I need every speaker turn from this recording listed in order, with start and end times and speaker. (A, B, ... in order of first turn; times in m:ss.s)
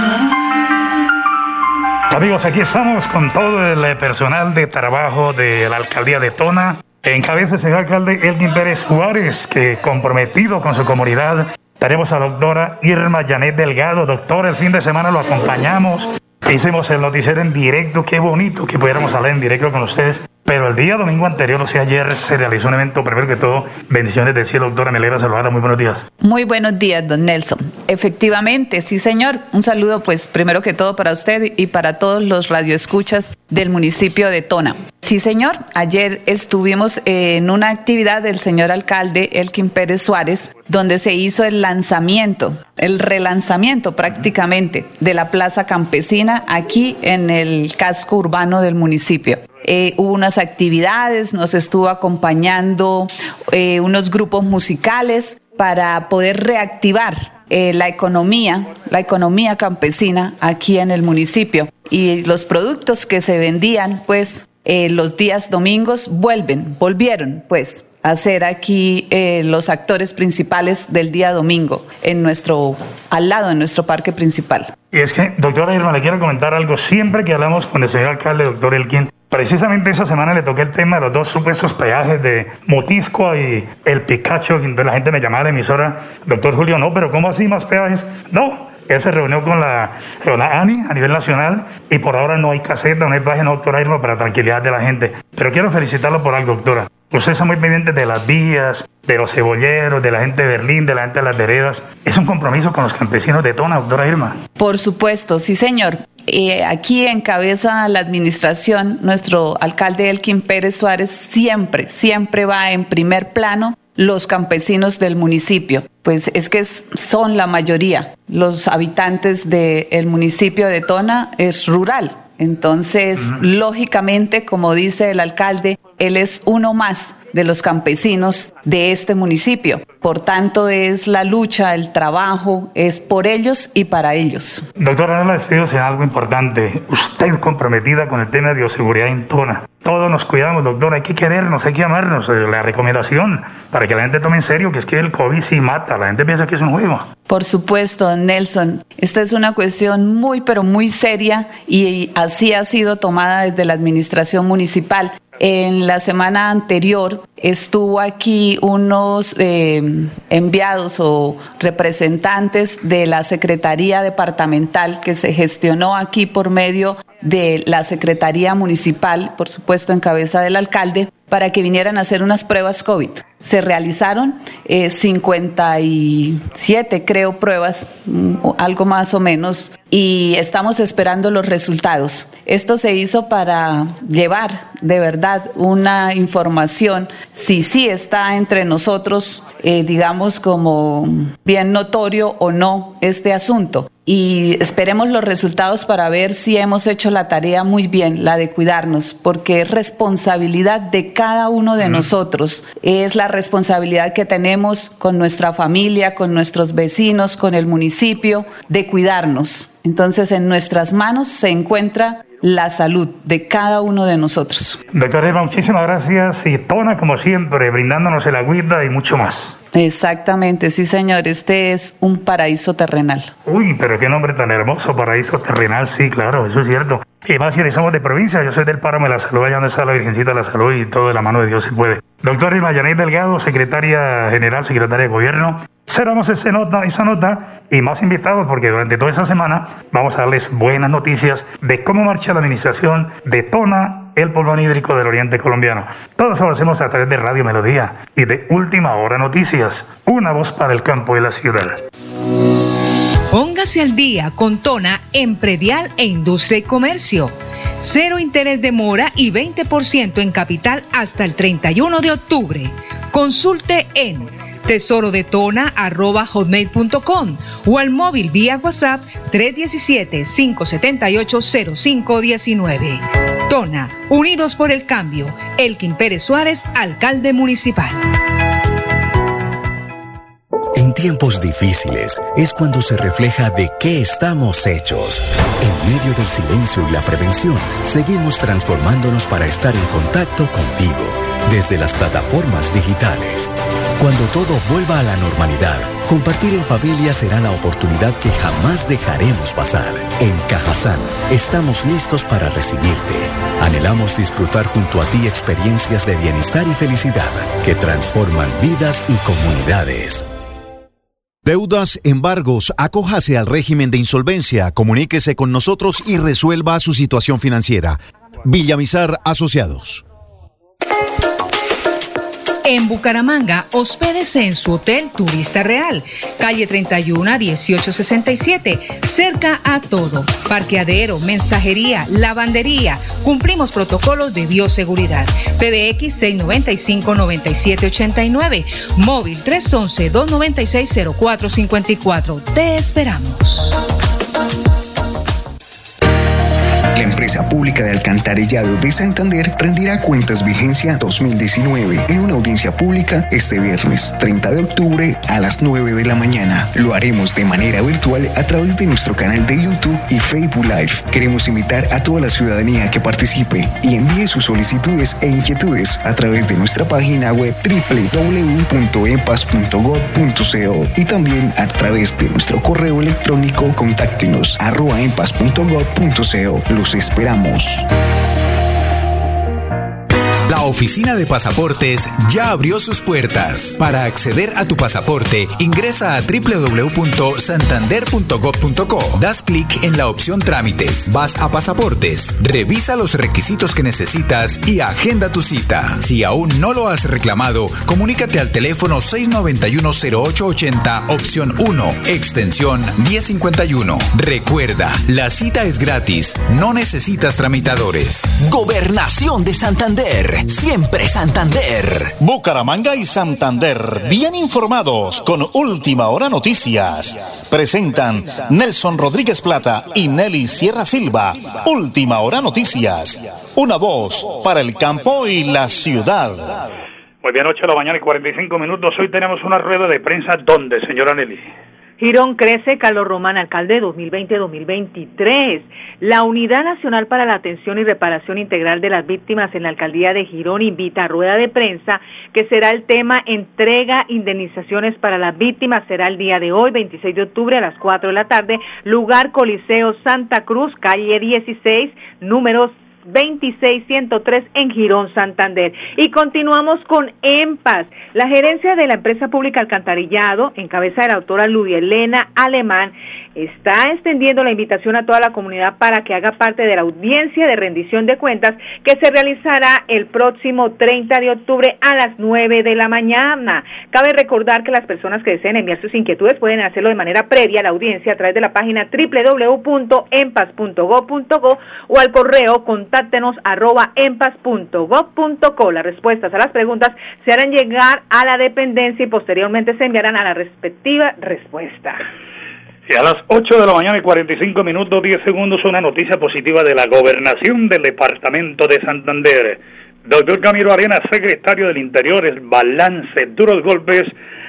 0:02.1-0:26.0 A
0:26.2-1:14.7 B
1:14.9-1:44.4 A
1:44.6-2:14.6 B
2:14.8-2:27.0 A
2:27.3-3:34.8 B
3:34.9-3:39.5 A
3:39.7-3:43.3 B
3:43.4-4:11.8 A
4:13.3-4:38.0 C
4:40.7-5:10.2 D
5:11.4-5:20.0 E
5:22.6-5:43.8 C
5:46.9-6:17.8 F
6:20.5-6:48.4 G
6:48.3-6:52.1 H
6:52.2-7:06.6 I
7:07.2-7:11.5 A
7:12.0-8:12.0 J
8:12.9-8:24.1 A